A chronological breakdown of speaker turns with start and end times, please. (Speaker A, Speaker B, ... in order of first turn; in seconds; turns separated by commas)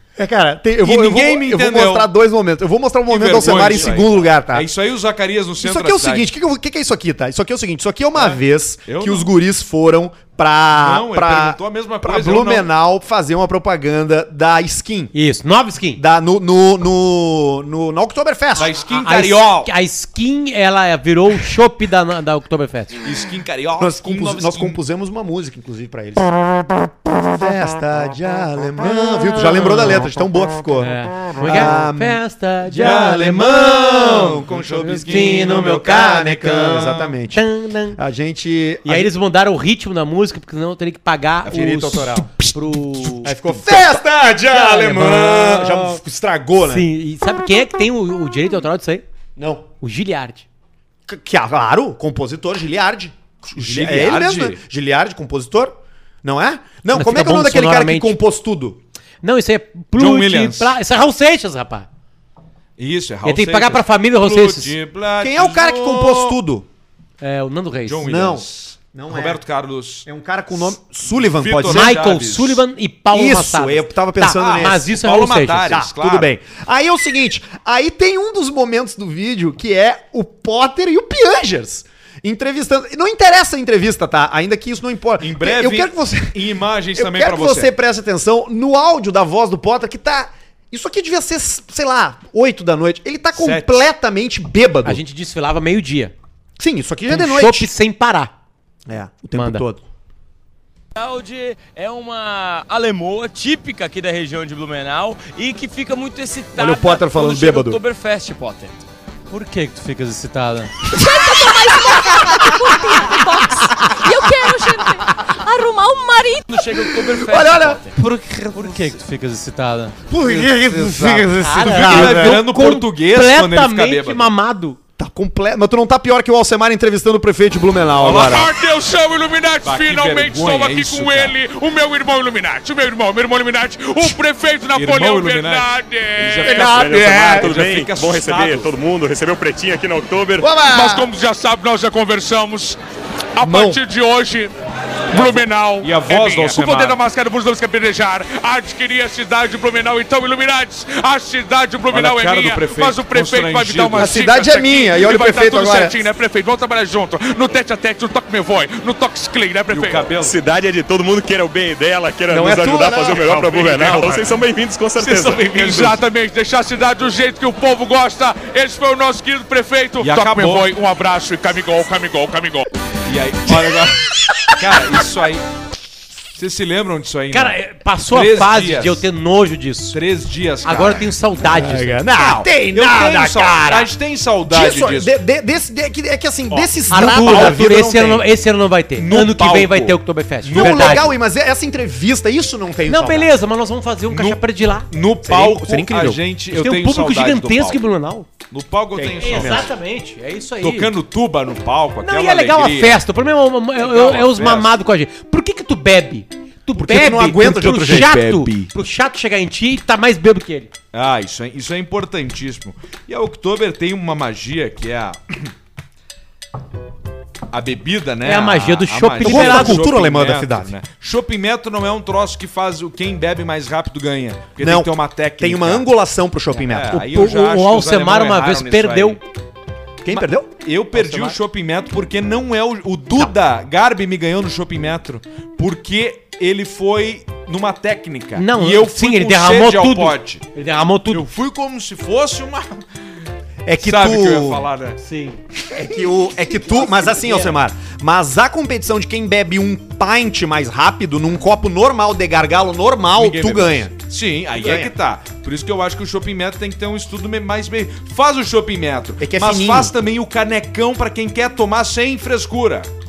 Speaker A: 0.1-4.7, Speaker B: 0.8-2.1, Speaker B: 3.1-6.3, Speaker A: 5.6-15.1, Speaker B: 8.2-9.3, Speaker B: 10.7-12.7, Speaker C: 15.1-16.0, Speaker A: 15.9-18.7, Speaker B: 18.6-19.7, Speaker C: 18.6-23.0, Speaker B: 23.0-24.8, Speaker A: 23.8-32.2, Speaker C: 29.6-30.1, Speaker C: 30.8-33.4, Speaker B: 32.7-35.8, Speaker A: 32.8-39.1, Speaker C: 34.9-38.0, Speaker B: 36.7-37.0, Speaker C: 38.9-46.0, Speaker A: 41.5-42.5, Speaker A: 43.0-46.9, Speaker C: 46.6-49.0, Speaker A: 49.4-49.7, Speaker C: 49.8-50.5, Speaker A: 51.1-58.8, Speaker B: 53.5-54.6, Speaker C: 56.9-58.2, Speaker C: 59.2-61.9, Speaker B: 60.0-60.8, Speaker B: 62.8-66.4, Speaker C: 63.2-64.8, Speaker A: 65.2-66.7, Speaker C: 67.2-68.1, Speaker B: 67.9-70.1, Speaker A: 68.0-69.4, Speaker A: 70.1-72.0, Speaker B: 71.2-72.6, Speaker C: 71.7-75.8, Speaker A: 73.1-74.9, Speaker B: 74.4-76.3, Speaker A: 75.7-95.0, Speaker B: 85.2-87.7, Speaker B: 93.3-93.9, Speaker C: 94.8-96.1, Speaker A: 96.6-97.7, Speaker C: 97.1-98.3, Speaker A: 98.9-99.8, Speaker C: 99.3-99.6, Speaker D: 101.0-108.8, Speaker A: 106.6-107.8, Speaker C: 109.3-110.7, Speaker A: 110.9-115.4, Speaker E: 111.4-112.8, Speaker E: 114.2-114.8, Speaker E: 115.6-116.3, Speaker D: 116.4-118.0, Speaker A: 117.1-117.8, Speaker C: 118.2-119.9, Speaker A: 120.1-122.4, Speaker B: 120.3-124.3, Speaker C: 121.4-124.8, Speaker A: 125.0-128.5, Speaker B: 128.0-128.5, Speaker F: 128.1-136.6, Speaker B: 129.6-131.4, Speaker B: 134.7-138.8, Speaker A: 136.4-137.5, Speaker G: 136.6-140.5, Speaker A: 140.4-141.1, Speaker F: 140.6-142.8, Speaker F: 143.4-144.5, Speaker A: 143.4-143.8, Speaker F: 145.1-160.1, Speaker B: 145.1-147.0, Speaker B: 151.9-154.2, Speaker A: 154.0-156.0, Speaker B: 159.7-160.4, Speaker G: 160.2-165.8, Speaker A: 162.3-163.3, Speaker B: 163.2-164.3, Speaker B: 165.0-166.0, Speaker F: 165.3-172.7, Speaker B: 170.0-170.7, Speaker B: 173.1-175.5, Speaker B: 176.4-177.6, Speaker C: 177.3-180.0, Speaker B: 178.1-179.0, Speaker B: 179.9-181.1, Speaker C: 180.6-182.0, Speaker A: 181.5-183.9, Speaker B: 182.1-185.2, Speaker A: 184.5-188.2, Speaker B: 186.5-187.6, Speaker C: 186.9-191.1, Speaker B: 189.0-191.1, Speaker A: 190.5-193.3, Speaker C: 192.9-194.9, Speaker B: 194.1-197.8, Speaker A: 195.2-196.2, Speaker C: 196.5-198.3, Speaker B: 198.5-199.7, Speaker A: 198.9-199.7, Speaker C: 199.2-200.9, Speaker B: 200.6-203.0, Speaker C: 202.0-210.7, Speaker B: 203.8-204.7, Speaker A: 206.8-208.7, Speaker B: 210.9-215.5, Speaker B: 217.5-225.9, Speaker C: 218.2-219.8, Speaker A: 219.2-220.7, Speaker A: 224.6-227.0, Speaker B: 226.7-229.2, Speaker C: 226.9-229.2, Speaker A: 230.0-230.5, Speaker B: 230.5-240.5, Speaker C: 231.0-231.3, Speaker C: 238.4-241.2, Speaker B: 241.1-242.8, Speaker A: 243.7-244.7, Speaker B: 243.8-245.0, Speaker C: 245.0-245.4, Speaker A: 245.7-253.9, Speaker C: 247.0-247.6, Speaker B: 253.2-262.9, Speaker A: 254.6-254.9, Speaker A: 259.2-259.9